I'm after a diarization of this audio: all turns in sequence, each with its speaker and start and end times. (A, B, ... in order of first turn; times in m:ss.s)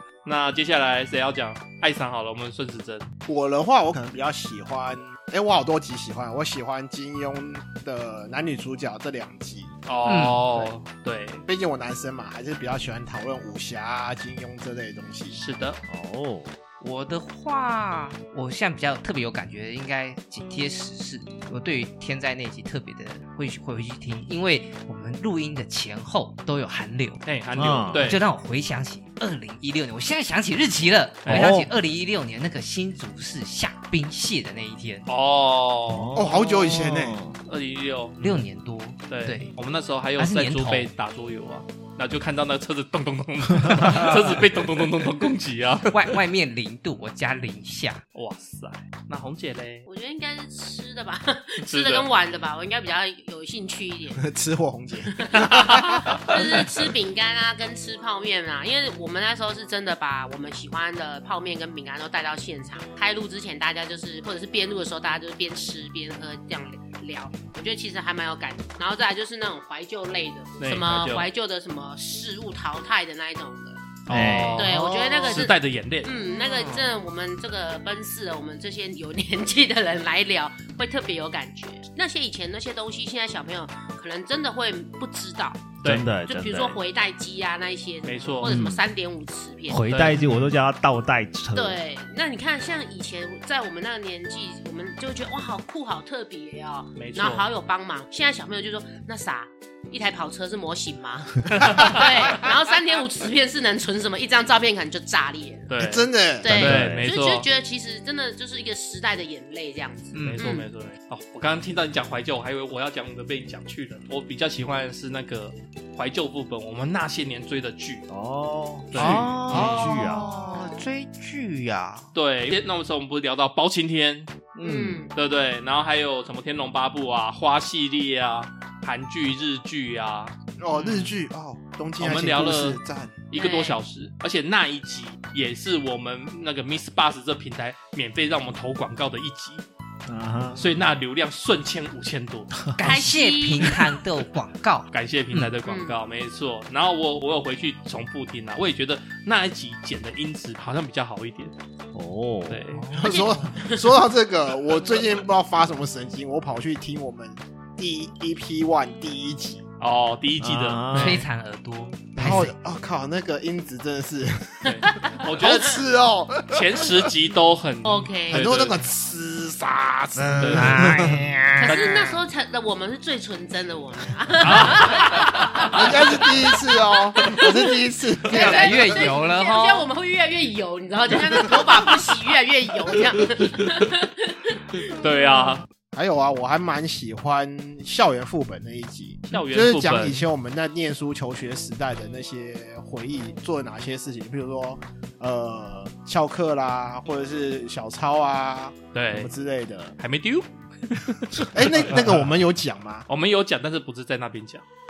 0:00.2-0:03.1 A
0:03.3-0:09.7 B
0:09.9-0:11.4 A
0:10.1-0:10.4 C
0:11.5-0:15.4 B
0:15.3-0:15.8 A
0:15.9-0:16.5 D
0:16.8-0:27.3 C
0:27.3-0:28.2 A
0:27.6-0:28.1 D
0:27.9-0:35.1 C
0:31.3-0:31.5 A
0:31.3-0:31.7 D
0:35.1-0:36.1 A
0:35.9-0:37.4 D
0:36.1-0:37.2 B
0:37.5-0:38.4 A
0:38.2-0:39.5 C
0:39.1-0:46.1 A
0:40.2-0:40.9 C
0:45.9-0:48.0 C
0:48.1-0:49.9 A
0:49.9-0:54.3 E
0:51.6-0:52.1 A
0:54.2-0:56.4 B
0:55.1-1:13.8 E
0:55.5-0:56.4 A
1:10.6-1:11.3 A
1:14.1-1:16.1 A
1:14.1-1:14.7 D
1:14.6-1:30.0 E
1:14.7-1:15.5 B
1:16.4-1:17.0 C
1:25.8-1:26.1 A
1:25.8-1:26.8 D
1:28.0-1:28.6 A
1:28.4-1:28.8 D
1:29.7-1:31.8 D
1:29.7-1:30.5 A
1:31.5-1:45.8 E
1:37.0-1:37.5 A
1:41.6-1:42.0 A
1:45.7-1:47.5 A
1:45.8-1:46.5 B
1:46.4-1:50.7 E
1:46.4-1:47.1 D
1:50.1-1:50.5 C
1:50.2-1:58.0 A
1:58.1-2:00.3 D
1:58.9-1:59.7 A
1:59.0-1:59.3 B
1:59.0-2:02.1 C
2:02.1-2:04.3 A
2:04.6-2:05.1 D
2:04.6-2:05.1 E
2:05.1-2:10.3 A
2:10.6-2:13.2 B
2:10.8-2:11.1 C
2:12.0-2:12.8 A
2:13.3-2:19.6 A
2:13.4-2:13.8 E
2:20.1-2:20.8 D
2:20.6-2:22.6 A
2:22.8-2:24.9 C
2:22.8-2:23.8 E
2:24.9-2:31.5 A
2:25.6-2:26.0 E
2:31.9-2:32.7 D
2:32.5-2:32.9 A
2:32.7-2:33.5 C
2:32.9-2:39.6 B
2:33.1-2:33.9 E
2:39.8-2:41.3 A
2:40.4-2:41.2 D
2:40.9-2:42.5 C
2:42.1-2:47.1 B
2:42.2-2:42.5 D
2:44.6-2:45.8 A
2:46.5-2:48.8 A
2:47.8-2:48.4 E
2:48.3-2:51.3 B
2:50.2-2:52.0 D
2:50.4-2:50.9 A
2:51.6-3:04.9 E
2:54.4-2:55.9 A
2:55.7-2:59.1 B
2:58.3-2:59.9 C
3:04.8-3:05.6 A
3:05.9-3:20.0 B
3:09.3-3:10.3 A
3:18.9-3:19.3 A
3:20.0-3:22.1 A
3:21.5-3:23.1 B
3:23.1-3:24.6 A